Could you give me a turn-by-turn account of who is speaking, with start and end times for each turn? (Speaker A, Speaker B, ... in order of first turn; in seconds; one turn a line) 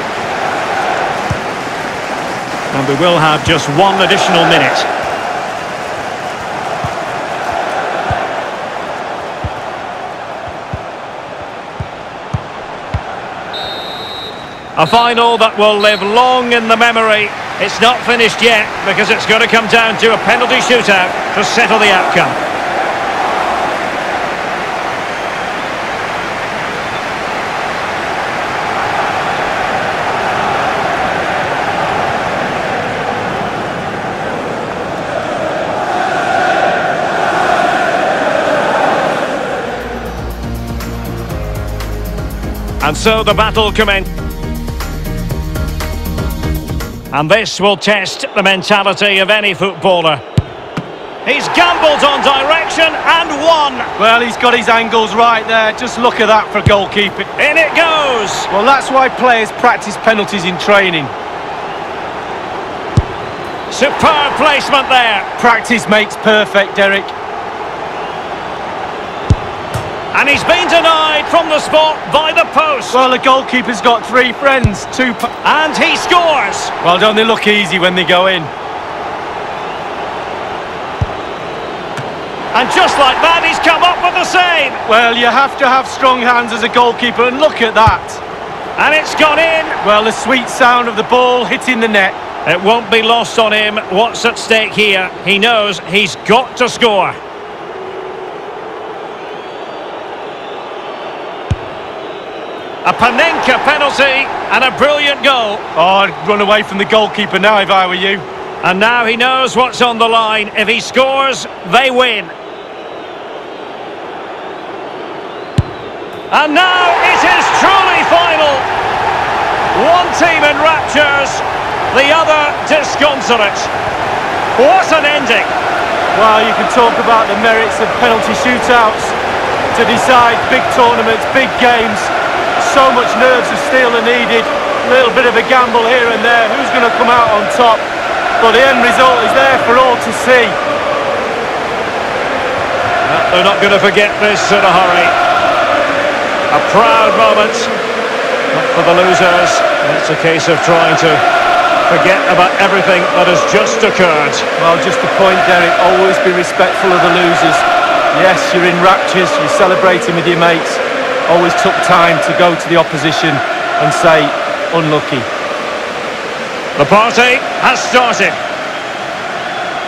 Speaker A: 2.7-4.9
Speaker A: 14.8-22.4
Speaker A: 42.8-44.1
Speaker A: 47.1-50.2
Speaker A: 51.2-53.9
Speaker B: 54.0-57.3
Speaker A: 57.4-58.5
Speaker B: 58.5-61.1
Speaker A: 63.7-65.3
Speaker B: 65.4-67.1
Speaker A: 70.1-73.0
Speaker B: 72.9-75.3
Speaker A: 75.4-76.7
Speaker B: 76.8-78.5
Speaker A: 82.5-84.8
Speaker B: 84.9-88.2
Speaker A: 88.8-89.8
Speaker B: 89.8-92.2
Speaker A: 92.4-97.2
Speaker A: 102.8-105.6
Speaker B: 105.8-108.2
Speaker A: 108.6-112.3
Speaker A: 116.3-118.7
Speaker A: 119.7-123.7
Speaker A: 124.5-125.5
Speaker B: 126.1-129.1
Speaker B: 129.7-137.8
Speaker B: 138.4-140.6
Speaker A: 143.0-145.1
Speaker A: 146.5-147.7
Speaker A: 148.5-151.2
Speaker A: 151.9-154.5
Speaker B: 154.6-165.3
Speaker A: 166.8-168.4